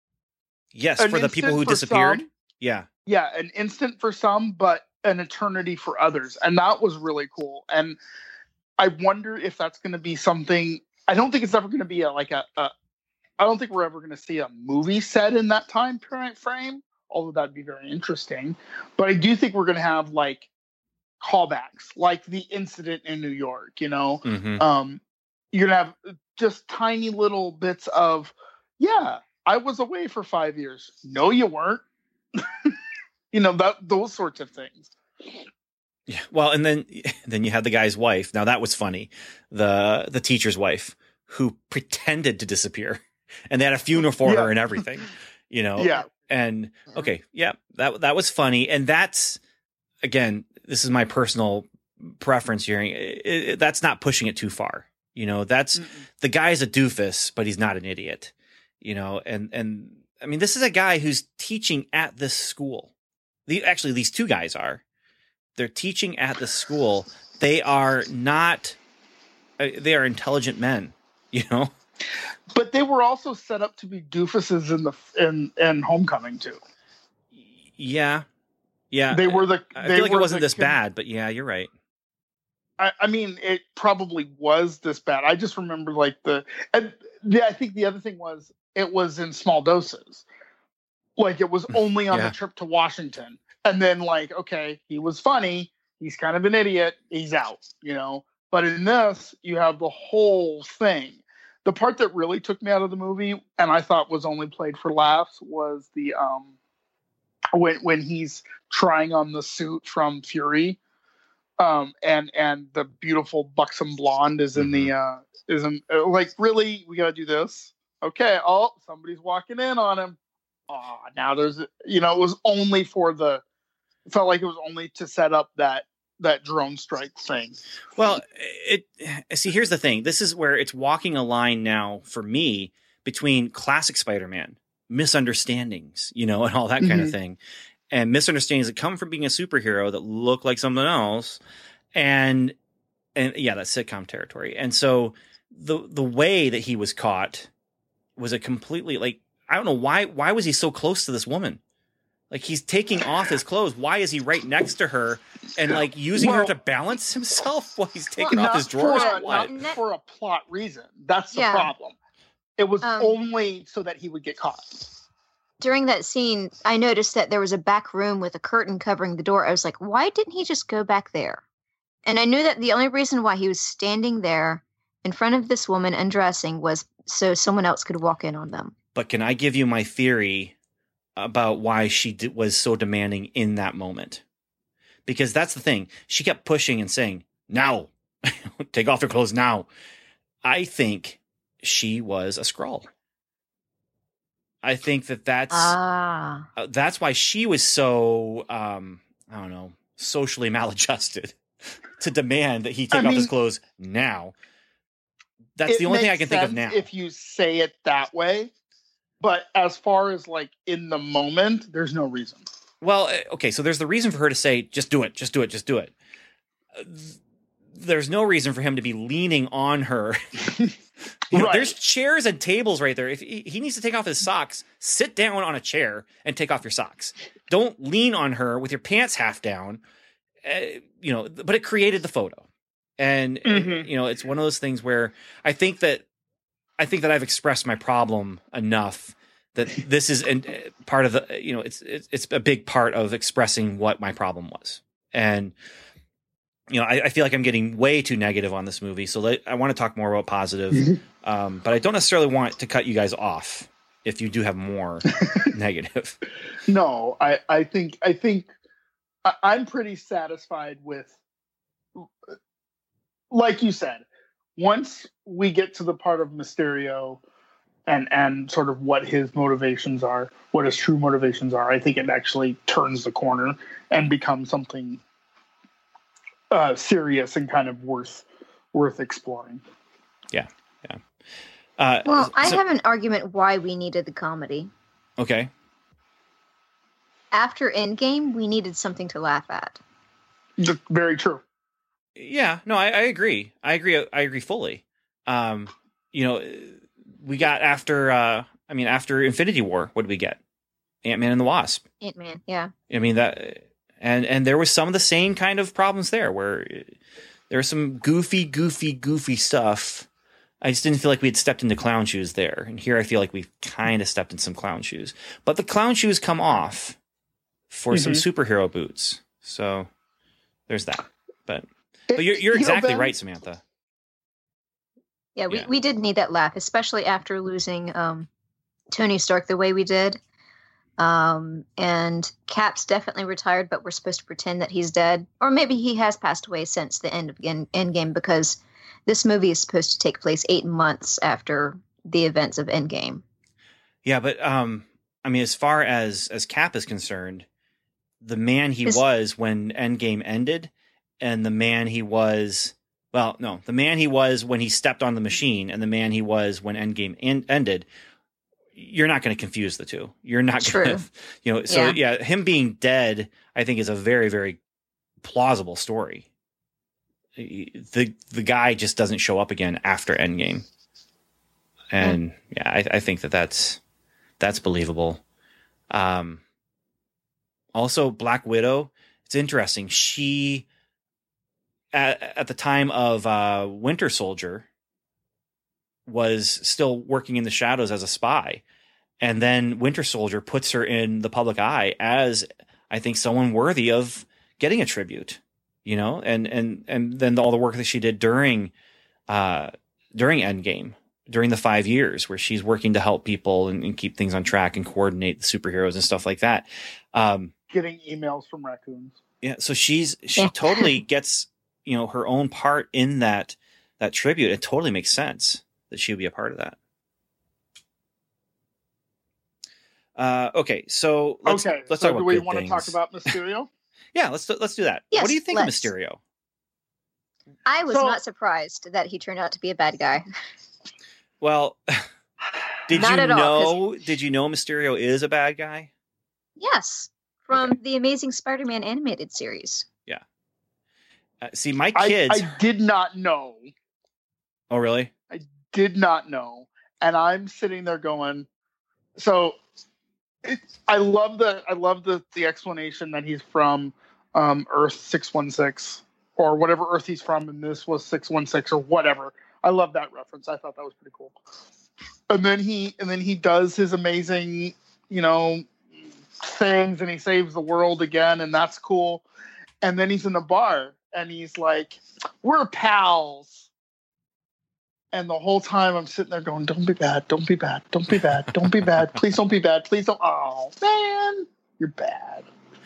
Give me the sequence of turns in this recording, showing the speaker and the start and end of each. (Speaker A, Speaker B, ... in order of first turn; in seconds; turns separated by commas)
Speaker A: 0.7-2.9, Speaker B: 1.0-2.3, Speaker B: 3.0-8.0, Speaker B: 8.8-12.7, Speaker B: 13.4-20.5, Speaker B: 21.2-25.0, Speaker A: 24.2-24.6, Speaker B: 25.5-32.8, Speaker B: 33.3-34.9, Speaker A: 36.1-49.4, Speaker B: 44.2-44.5, Speaker B: 45.8-46.1, Speaker A: 50.0-62.9, Speaker B: 55.8-56.0, Speaker A: 63.5-64.8, Speaker A: 65.6-68.8, Speaker A: 69.6-71.7, Speaker B: 72.5-76.6, Speaker A: 77.4-78.2, Speaker A: 78.9-81.7, Speaker B: 79.1-80.7, Speaker B: 82.8-90.2, Speaker B: 91.2-106.5, Speaker B: 107.5-110.8, Speaker B: 111.6-120.2, Speaker A: 114.5-114.9, Speaker B: 120.7-123.4, Speaker B: 124.0-127.6, Speaker A: 128.0-137.4, Speaker B: 136.8-137.1, Speaker A: 137.9-141.4, Speaker A: 141.9-142.6, Speaker A: 143.2-147.5, Speaker A: 148.2-151.6, Speaker A: 152.3-159.5, Speaker B: 156.2-156.5, Speaker C: 158.2-159.8, Speaker B: 158.3-161.9, Speaker C: 161.3-161.7, Speaker B: 162.6-164.9, Speaker C: 162.8-163.1, Speaker C: 165.6-171.4, Speaker C: 172.0-178.7, Speaker A: 178.9-180.5, Speaker A: 181.2-184.2, Speaker A: 185.1-189.7, Speaker A: 190.4-192.9, Speaker A: 194.6-195.8, Speaker C: 195.5-196.5, Speaker A: 196.6-201.4, Speaker A: 202.0-204.3, Speaker B: 202.9-203.3, Speaker A: 205.6-206.8, Speaker B: 205.7-208.5, Speaker B: 209.2-212.4, Speaker A: 212.8-215.9, Speaker A: 216.7-217.2, Speaker A: 217.7-220.2, Speaker B: 220.5-220.7, Speaker A: 221.3-229.8, Speaker B: 221.3-221.7, Speaker A: 230.4-232.4, Speaker A: 233.0-236.0, Speaker B: 233.4-233.9, Speaker A: 236.8-245.5, Speaker A: 246.7-256.2, Speaker B: 256.6-258.5, Speaker B: 259.2-261.1, Speaker B: 263.3-264.1, Speaker B: 264.6-267.2, Speaker B: 267.9-275.0, Speaker B: 276.5-279.6, Speaker A: 280.3-281.0, Speaker A: 281.8-282.6, Speaker C: 282.0-284.7, Speaker A: 285.2-285.5, Speaker C: 287.3-289.8, Speaker B: 290.6-291.4, Speaker A: 292.1-300.4, Speaker A: 301.0-301.8, Speaker C: 302.0-302.7, Speaker A: 302.9-306.9, Speaker A: 307.5-310.1, Speaker A: 310.6-317.0, Speaker A: 317.7-319.9, Speaker B: 317.9-318.2, Speaker A: 320.7-323.6, Speaker B: 322.1-323.1, Speaker C: 325.4-328.3, Speaker C: 328.9-330.2, Speaker C: 331.0-343.2, Speaker A: 344.0-347.4, Speaker A: 348.2-357.9, Speaker A: 358.7-364.6, Speaker C: 360.6-361.0, Speaker C: 361.7-362.0, Speaker A: 365.2-366.2, Speaker A: 367.4-370.6, Speaker A: 371.9-373.8, Speaker A: 374.4-375.2, Speaker A: 375.9-376.4, Speaker A: 377.7-380.6, Speaker A: 381.9-384.6, Speaker A: 386.1-388.6, Speaker A: 389.2-398.7, Speaker A: 399.3-407.5, Speaker B: 407.7-409.2, Speaker A: 409.4-416.8, Speaker C: 410.4-411.0, Speaker A: 420.1-422.9, Speaker B: 421.4-423.7, Speaker A: 424.1-426.2, Speaker C: 425.1-425.9, Speaker C: 427.6-430.2, Speaker B: 427.9-428.2, Speaker A: 431.4-432.1, Speaker A: 432.9-435.9, Speaker C: 432.9-433.8, Speaker C: 436.6-439.9, Speaker A: 437.5-437.8, Speaker A: 441.4-442.6, Speaker B: 441.9-443.7, Speaker A: 444.7-445.1, Speaker B: 445.3-448.5, Speaker B: 449.1-449.6, Speaker B: 450.4-461.4, Speaker B: 462.3-465.7, Speaker B: 466.4-469.2, Speaker B: 469.8-473.7, Speaker B: 475.1-482.5